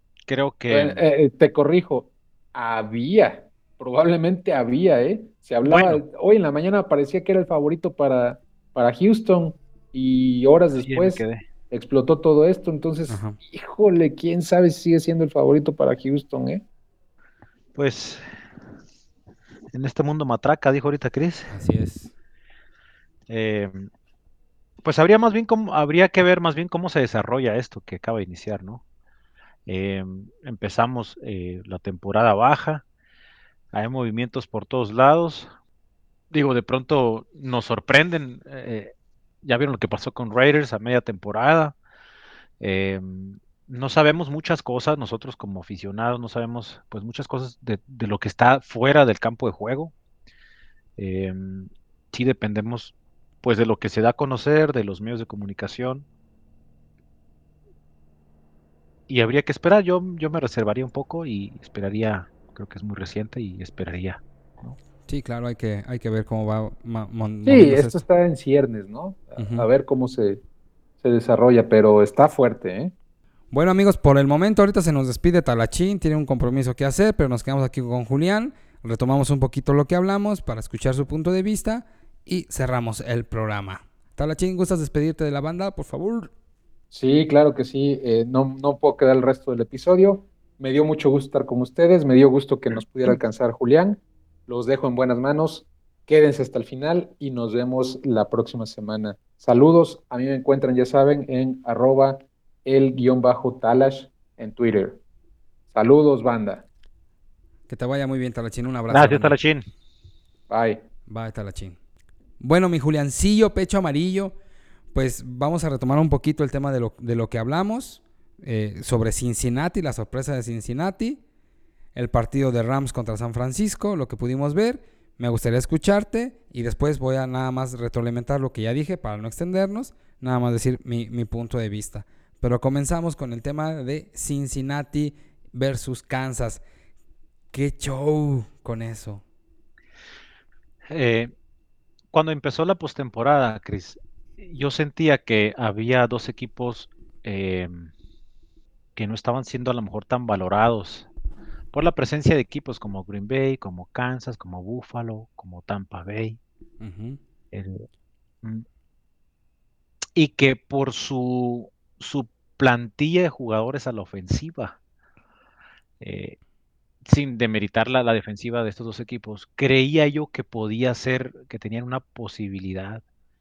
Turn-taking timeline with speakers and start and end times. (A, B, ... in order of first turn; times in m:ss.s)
0:00.3-0:01.0 A
0:00.7-0:16.6 B
0:05.6-0:06.0 A
0:10.8-0:11.4 A
0:13.1-0:13.4 C
0:17.8-0:18.2 A
0:19.7-0:21.6 A
0:21.5-0:22.1 C
0:23.3-0:23.9 A
0:24.8-0:28.8 A
0:29.7-0:32.8 A
0:33.7-0:35.5 A
0:36.3-0:41.8 A
0:42.6-0:49.9 A
0:51.0-0:56.1 A
0:59.1-1:04.8 A
1:05.1-1:08.0 C
1:07.4-1:10.4 B
1:09.4-1:09.7 C
1:11.0-1:12.9 B
1:13.5-1:26.3 C
1:26.9-1:45.0 B
1:45.7-1:46.7 B
1:47.7-1:49.4 C
1:48.9-1:49.6 A
1:50.5-1:50.8 B
1:51.1-1:51.8 C
1:52.4-1:54.4 C
1:54.9-2:01.2 C
2:02.0-2:16.6 C
2:17.5-2:19.2 C
2:20.9-2:21.3 A
2:22.1-2:27.9 A
2:29.0-2:31.1 A
2:31.7-2:36.4 A
2:36.8-2:37.2 C
2:37.5-2:37.9 A
2:40.2-2:44.8 A
2:46.0-2:46.4 A
2:47.0-2:53.0 A